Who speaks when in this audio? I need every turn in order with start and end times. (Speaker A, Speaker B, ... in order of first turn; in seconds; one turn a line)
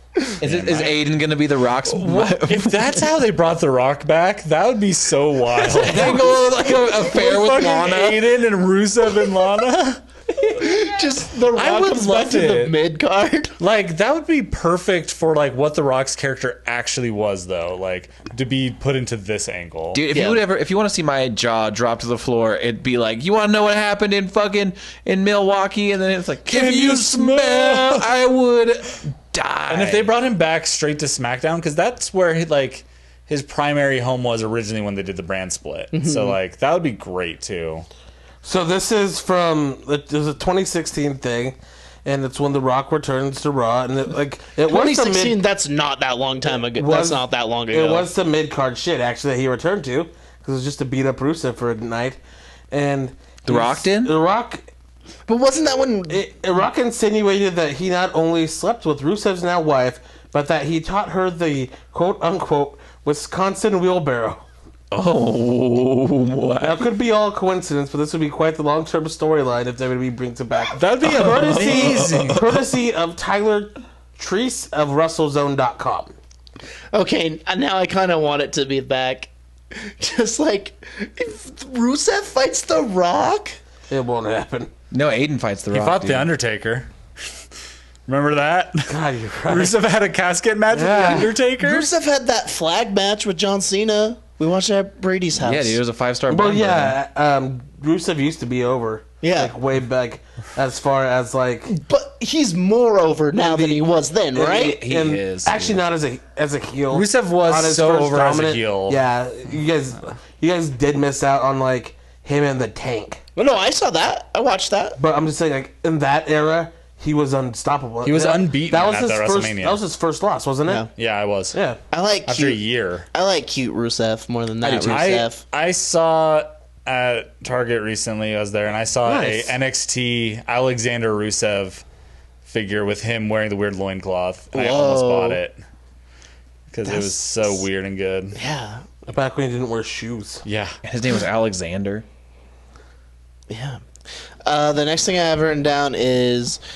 Speaker A: 0.4-3.0
Speaker B: 0.4-0.9
Speaker B: 1.9-6.3
Speaker A: 5.6-8.2
Speaker B: 6.9-10.0
Speaker C: 10.4-13.5
Speaker B: 11.5-12.8
Speaker B: 13.6-20.0
Speaker A: 19.9-30.1
Speaker C: 20.1-20.4
Speaker B: 26.4-28.1
Speaker B: 29.7-37.9
Speaker C: 35.9-36.4
Speaker D: 38.4-45.4
Speaker C: 44.6-48.1
Speaker D: 46.6-52.2
Speaker D: 52.7-54.6
Speaker A: 53.5-54.1
Speaker C: 55.3-56.2
Speaker D: 56.1-64.4
Speaker A: 64.9-66.8
Speaker D: 66.6-76.1
Speaker B: 70.7-72.4
Speaker A: 71.0-72.7
Speaker C: 76.9-83.6
Speaker D: 83.9-84.7
Speaker A: 84.9-86.3
Speaker B: 85.7-86.9
Speaker B: 88.1-88.9
Speaker D: 88.9-89.8
Speaker B: 89.5-91.9
Speaker D: 90.7-91.3
Speaker C: 91.1-95.8
Speaker A: 95.4-97.0
Speaker D: 96.3-101.7
Speaker C: 99.2-99.5
Speaker C: 101.7-104.8
Speaker D: 103.4-113.2
Speaker A: 104.5-105.8
Speaker B: 106.9-109.0
Speaker C: 113.3-115.0
Speaker D: 115.0-120.9
Speaker B: 118.0-119.8
Speaker B: 120.9-121.6
Speaker D: 121.5-121.8
Speaker C: 121.9-125.4
Speaker B: 122.3-123.1
Speaker A: 124.6-125.0
Speaker B: 124.8-131.8
Speaker D: 129.0-129.5
Speaker B: 132.4-135.6
Speaker C: 134.5-135.4
Speaker B: 136.7-138.4
Speaker C: 138.3-138.8
Speaker D: 139.1-140.4
Speaker B: 140.4-140.7
Speaker A: 140.8-142.0
Speaker C: 143.5-143.8
Speaker C: 144.4-146.6